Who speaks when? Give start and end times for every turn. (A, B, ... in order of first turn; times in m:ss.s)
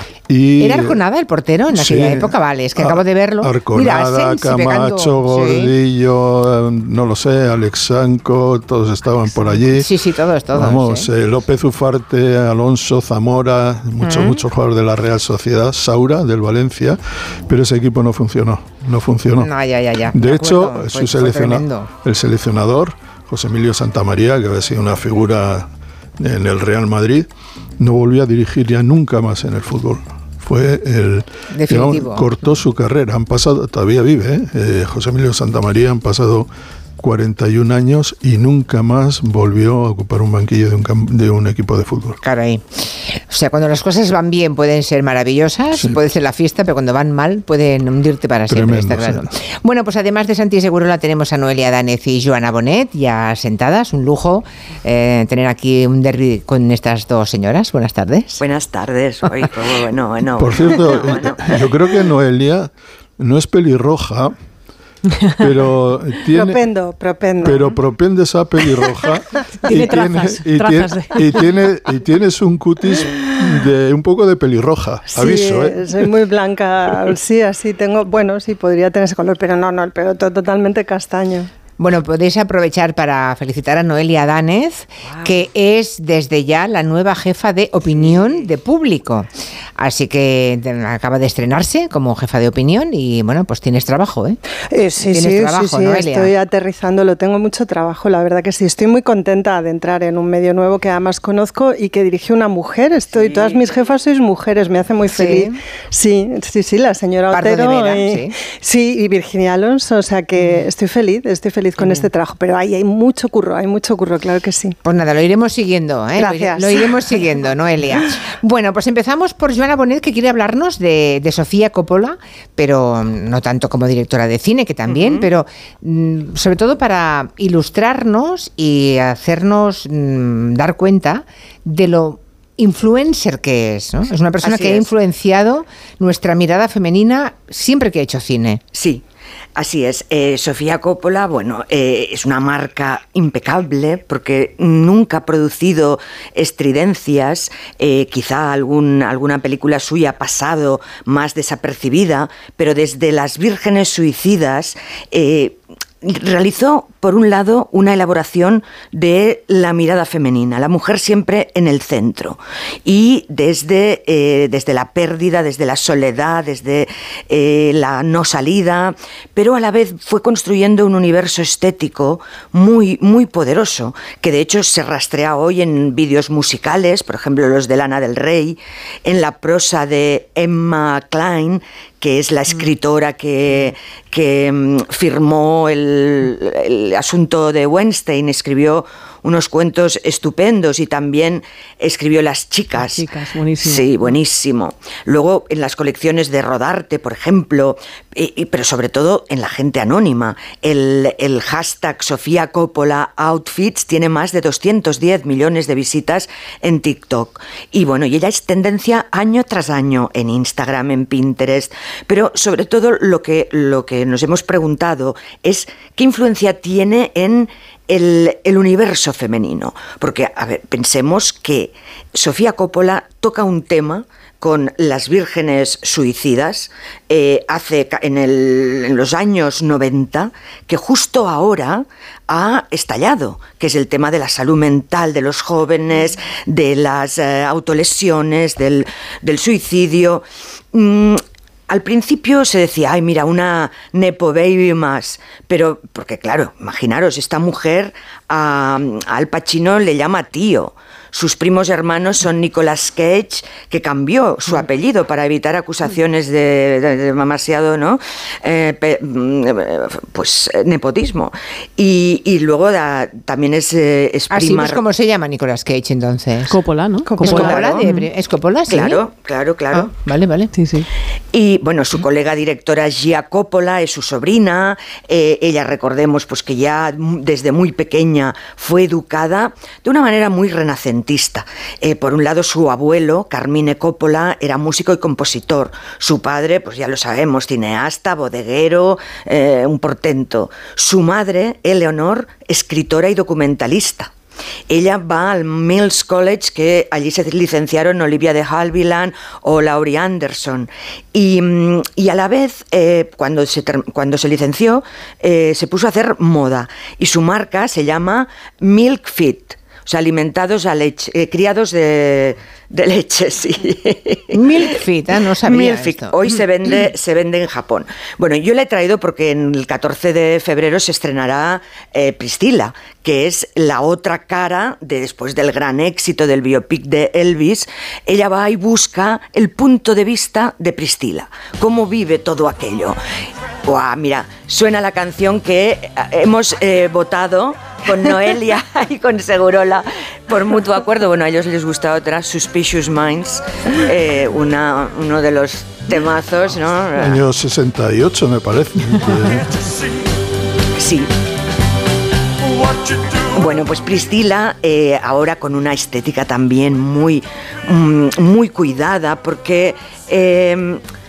0:00.3-0:01.0 A
0:00.6-0:05.7 B
0:01.7-0:09.9 A
0:09.3-0:11.1 B
0:10.5-0:19.5 A
0:14.0-0:14.4 B
0:19.4-0:21.9 B
0:20.1-0:25.7 A
0:26.2-0:27.3 A
0:27.8-0:42.2 A
0:31.5-0:32.3 B
0:42.2-0:58.4 B
0:48.5-0:49.2 A
0:58.4-1:01.6 C
1:00.3-1:04.3 A
1:05.4-1:06.6 A
1:06.2-1:07.8 D
1:07.4-1:16.1 A
1:09.6-1:11.4 E
1:13.0-1:13.3 D
1:15.1-1:21.5 D
1:21.8-1:29.3 B
1:27.9-1:28.5 C
1:29.8-1:34.4 B
1:34.7-1:54.8 D
1:35.0-1:36.3 B
1:43.0-1:43.8 C
1:45.1-1:45.6 B
1:47.3-1:48.3 B
1:54.8-2:18.6 B
1:56.2-1:57.0 D
2:04.9-2:05.3 C
2:14.4-2:14.8 C
2:18.7-2:19.0 C
2:19.6-3:13.0 C
3:12.8-3:13.9 E
3:13.6-4:24.8 C
4:24.3-4:26.5 B
4:26.5-4:28.1 E
4:27.1-4:27.7 D
4:27.2-4:29.0 B
4:27.2-4:27.8 C
4:28.7-4:29.9 C
4:29.7-4:30.5 B
4:30.5-4:30.8 E
4:31.3-4:54.1 C
4:54.7-5:14.4 C
5:14.3-5:16.4 B
5:15.4-5:33.0 C
5:33.6-5:47.2 C
5:47.0-5:49.4 A
5:50.8-5:51.1 C
5:53.3-6:00.8 C